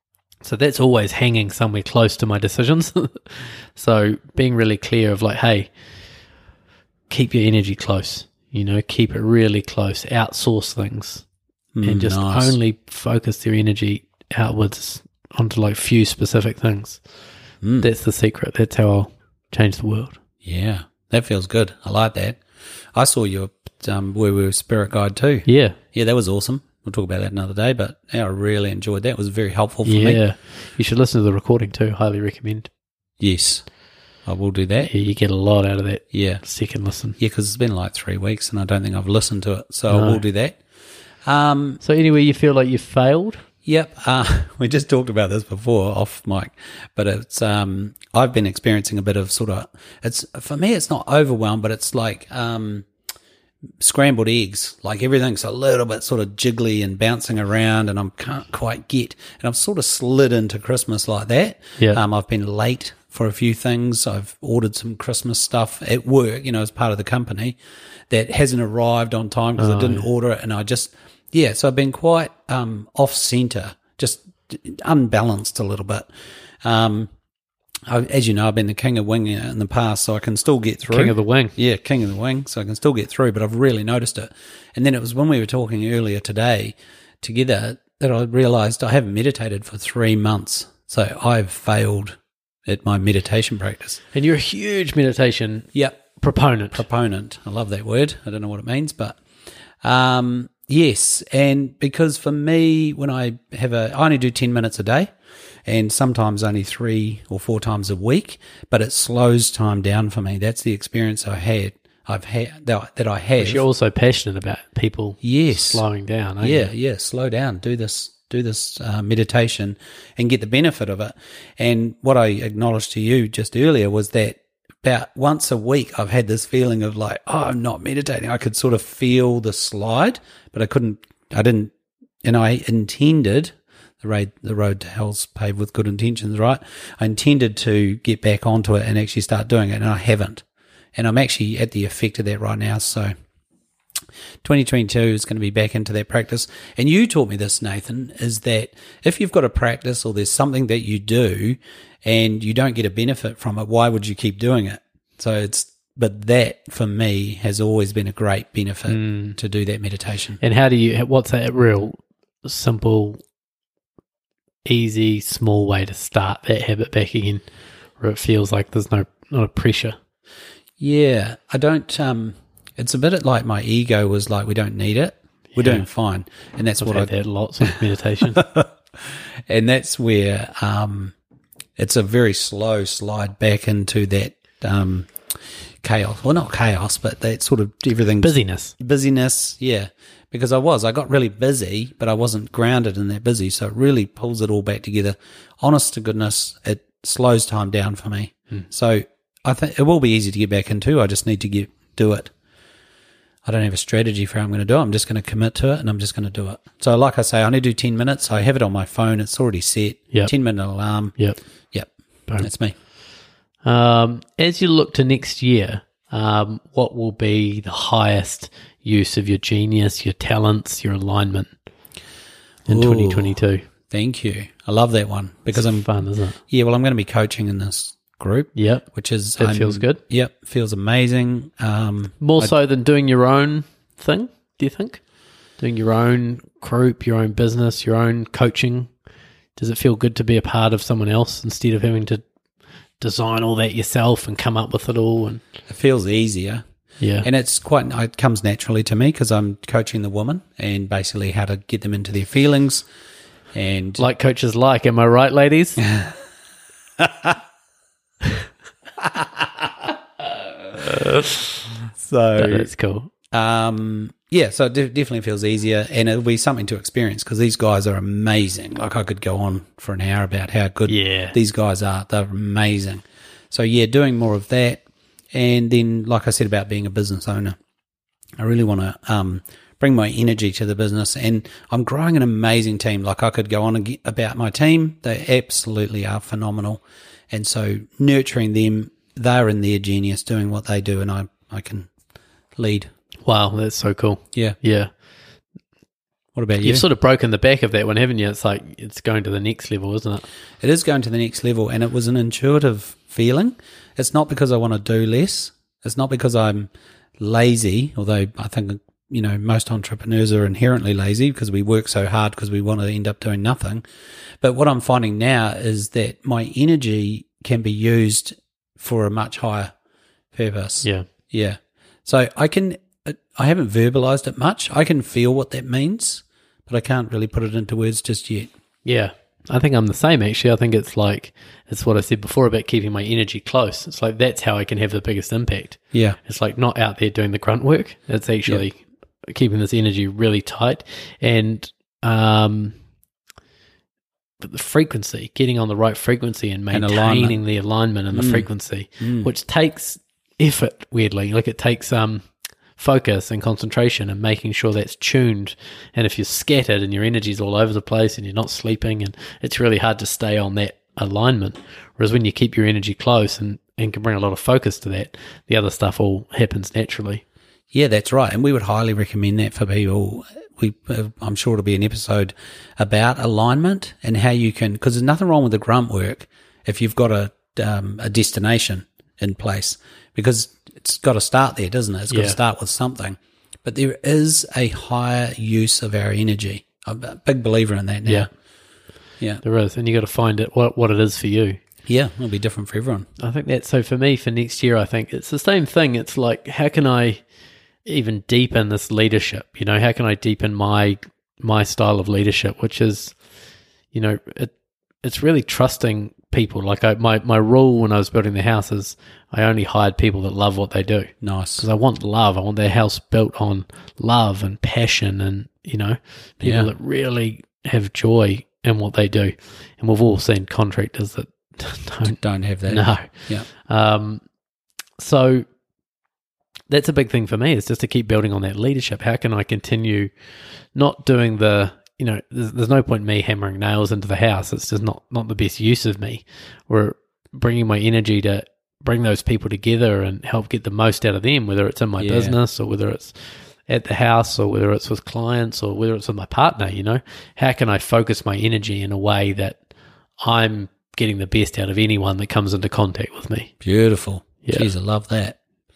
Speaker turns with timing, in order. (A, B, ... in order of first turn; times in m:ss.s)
0:00.4-0:05.7 A
0:07.1-0:11.2 A
0:11.7-0:12.6 B
0:11.8-0:17.0 A
0:17.6-0:17.9 B
0:17.8-0:20.2 A
0:20.4-0:22.4 B
0:22.9-0:30.2 B
0:25.4-0:25.8 A
0:29.8-0:32.7 A
0:33.2-0:33.6 B
0:34.2-0:34.9 B
0:34.8-0:37.2 A
0:36.1-0:36.4 B
0:37.2-0:40.6 B
0:39.9-0:40.2 A
0:41.2-0:41.8 B
0:41.8-0:43.4 A
0:43.6-0:52.9 B
0:53.8-1:07.6 B
1:08.1-1:16.1 B
1:09.6-1:10.1 A
1:16.6-1:17.1 B
1:17.9-1:34.0 B
1:20.9-1:21.5 A
1:34.1-1:36.8 A
1:35.7-1:36.0 B
1:36.7-1:39.2 B
1:39.8-1:45.1 B
1:45.6-1:53.6 B
1:53.4-1:56.7 A
1:55.2-1:55.8 B
1:56.4-2:11.7 B
2:12.2-2:20.4 B
2:20.9-2:23.1 B
2:24.4-2:40.4 B
2:38.9-2:39.4 A
2:40.4-2:43.2 A
2:44.6-2:47.4 A
2:48.0-2:50.0 A
2:50.8-2:57.7 B
2:55.5-2:55.8 A
2:56.8-2:58.4 A
2:58.2-3:01.1 B
3:01.8-3:05.1 B
3:05.8-3:22.3 B
3:08.2-3:08.7 A
3:23.4-3:31.1 B
3:31.7-3:32.7 B
3:33.6-3:41.5 A
3:42.6-3:43.7 A
3:42.7-3:43.4 B
3:43.9-3:45.9 B
3:45.6-3:46.4 A
3:46.5-3:52.5 B
3:48.5-3:48.9 A
3:49.4-3:50.0 A
3:52.2-3:55.0 A
3:55.6-3:58.9 A
3:59.6-4:02.2 A
4:03.0-4:05.4 A
4:05.7-4:06.6 B
4:07.0-4:07.3 A
4:07.2-4:12.8 B
4:13.5-4:14.0 B
4:14.0-4:15.8 A
4:15.8-4:16.2 B
4:17.0-4:17.4 B
4:19.0-4:21.1 B
4:20.9-4:21.4 A
4:22.0-4:22.7 B
4:22.4-4:23.1 A
4:23.3-4:34.8 B
4:30.9-4:31.3 A
4:35.3-4:37.6 B
4:38.4-4:51.9 B
4:52.6-4:52.9 B
4:53.2-4:54.9 A
4:56.4-4:56.8 B
4:56.6-5:00.2 A
5:00.6-5:13.8 B
5:14.4-5:19.7 B
5:20.3-5:28.5 B
5:20.8-5:21.1 A
5:28.8-5:42.8 A
5:35.9-5:36.2 B
5:44.4-6:07.2 A
5:46.7-5:47.4 B
5:48.1-5:48.5 B
5:49.0-5:49.3 B
6:07.7-6:28.3 B
6:22.1-6:22.4 A
6:29.4-6:31.6 A
6:31.9-6:33.1 B
6:33.2-6:37.2 A
6:37.8-6:43.1 A
6:43.9-6:44.5 A
6:45.0-7:04.2 A
6:51.2-6:51.6 B
6:56.4-6:56.7 B
7:02.0-7:03.4 B
7:05.0-7:05.4 A
7:06.7-7:10.1 A
7:10.7-7:29.6 A
7:22.0-7:22.4 B
7:30.2-7:33.5 A
7:33.6-7:35.4 B
7:34.4-7:34.7 A